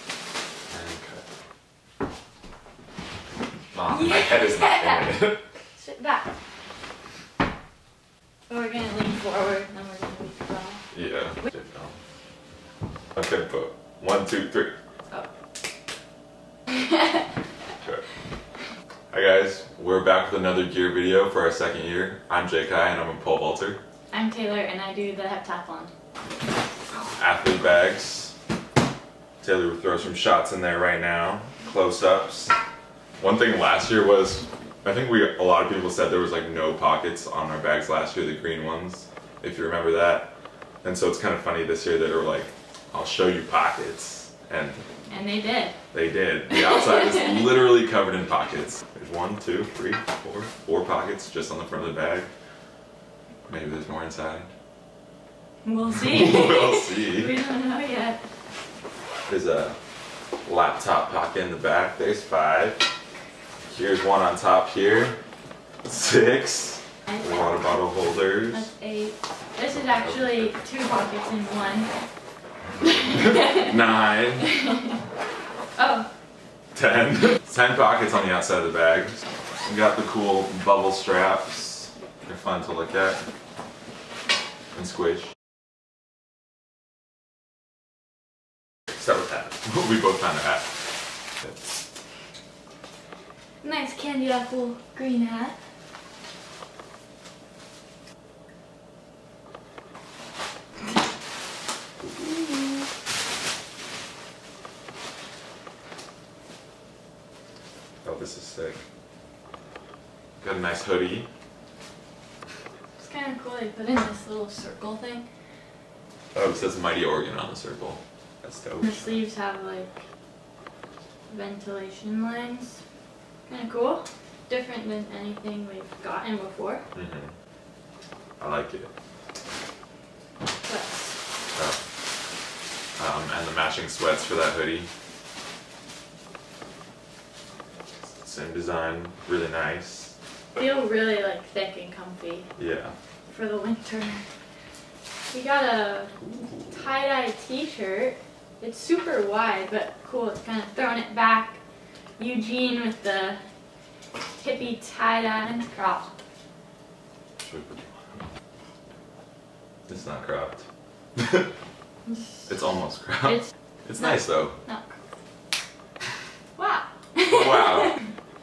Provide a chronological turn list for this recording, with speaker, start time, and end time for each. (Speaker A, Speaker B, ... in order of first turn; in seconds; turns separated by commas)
Speaker A: 0.7-1.2, Speaker A: 3.7-5.4, Speaker B: 3.9-5.2, Speaker B: 5.7-6.3, Speaker B: 8.5-10.8, Speaker A: 10.9-11.9, Speaker A: 13.1-14.7, Speaker B: 16.7-17.2, Speaker A: 19.1-23.8, Speaker B: 24.1-25.9, Speaker A: 27.1-28.3, Speaker A: 29.4-32.5, Speaker A: 33.2-40.3, Speaker A: 40.8-45.0, Speaker B: 45.1-45.8, Speaker A: 45.9-52.3, Speaker B: 46.6-47.3, Speaker A: 53.5-54.5, Speaker B: 55.6-58.2, Speaker A: 55.9-57.3, Speaker A: 59.3-59.8, Speaker A: 60.4-62.8, Speaker A: 63.7-65.2, Speaker A: 65.8-68.7, Speaker B: 68.5-71.9, Speaker A: 69.7-70.5, Speaker A: 73.0-74.5, Speaker B: 73.1-73.8, Speaker B: 74.4-75.0, Speaker B: 75.8-76.1, Speaker A: 76.7-79.1, Speaker A: 79.7-83.2, Speaker A: 84.7-85.3, Speaker A: 89.0-90.8, Speaker B: 93.6-95.6, Speaker A: 108.0-108.8, Speaker A: 110.4-111.3, Speaker B: 113.0-115.3, Speaker A: 116.3-119.2, Speaker B: 118.8-120.0, Speaker B: 121.3-122.8, Speaker B: 123.5-126.8, Speaker A: 126.9-127.3, Speaker A: 128.4-128.9, Speaker B: 130.6-131.2, Speaker A: 131.5-131.8, Speaker A: 133.0-134.9, Speaker A: 138.1-140.1, Speaker B: 140.6-142.5, Speaker A: 142.6-142.9, Speaker B: 143.3-144.2, Speaker B: 145.3-146.1, Speaker A: 146.2-146.9, Speaker B: 146.7-151.6, Speaker B: 152.2-153.4, Speaker B: 154.3-156.1, Speaker A: 157.4-158.2, Speaker A: 159.9-160.6, Speaker A: 161.2-161.5, Speaker B: 162.0-162.5, Speaker A: 162.5-164.6, Speaker B: 163.2-164.9, Speaker B: 166.6-168.0, Speaker A: 167.2-168.0